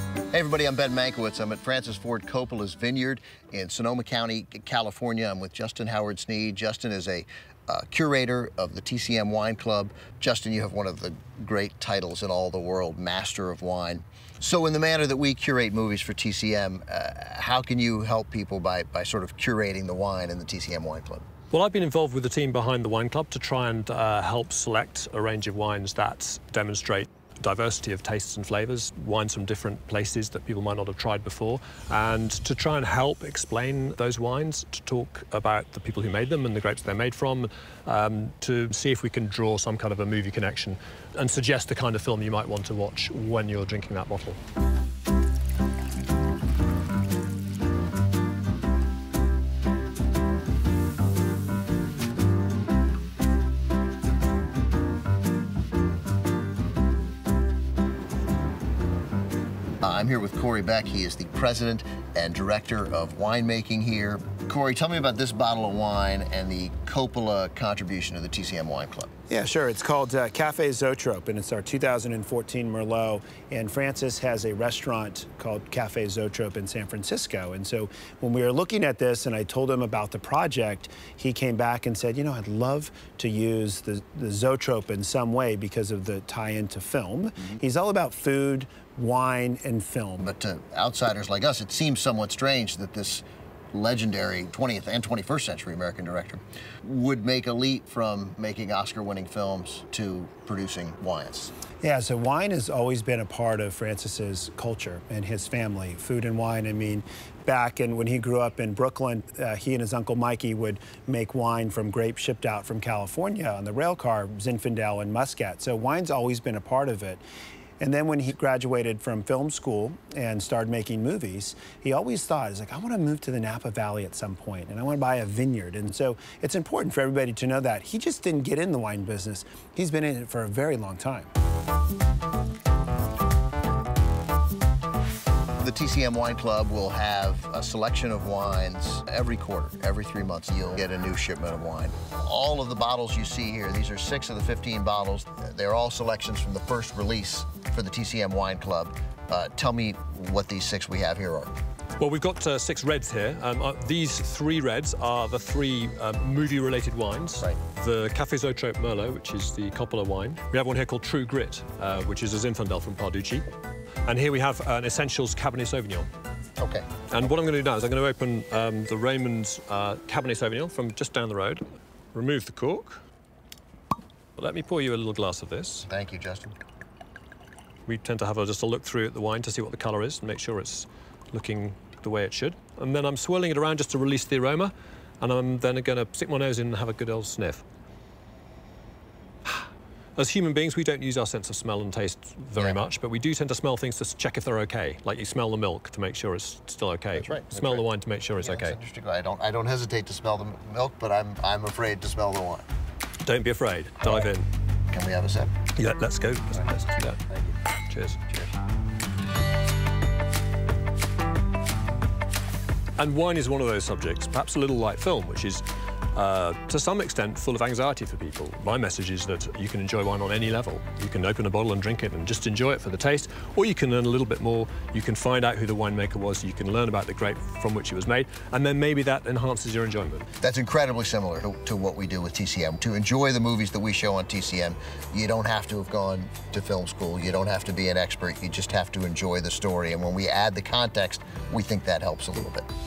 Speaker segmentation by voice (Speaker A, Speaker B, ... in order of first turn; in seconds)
Speaker A: 0.3-21.2, 59.8-69.1, 90.2-101.5, 135.6-151.5, 166.6-166.9, 175.9-176.6, 192.6-192.8, 197.1-197.8, 198.4-202.7, 204.9-205.5, 230.4-242.7
Speaker B: 21.5-44.4, 152.0-163.5, 164.0-166.1, 167.1-171.6, 172.1-173.0, 174.4-175.9, 177.8-187.6, 190.2-198.8, 203.2-204.5, 205.8-207.2, 207.9-208.2, 213.0-230.2
Speaker C: 69.3-90.3, 101.8-117.2, 117.8-131.3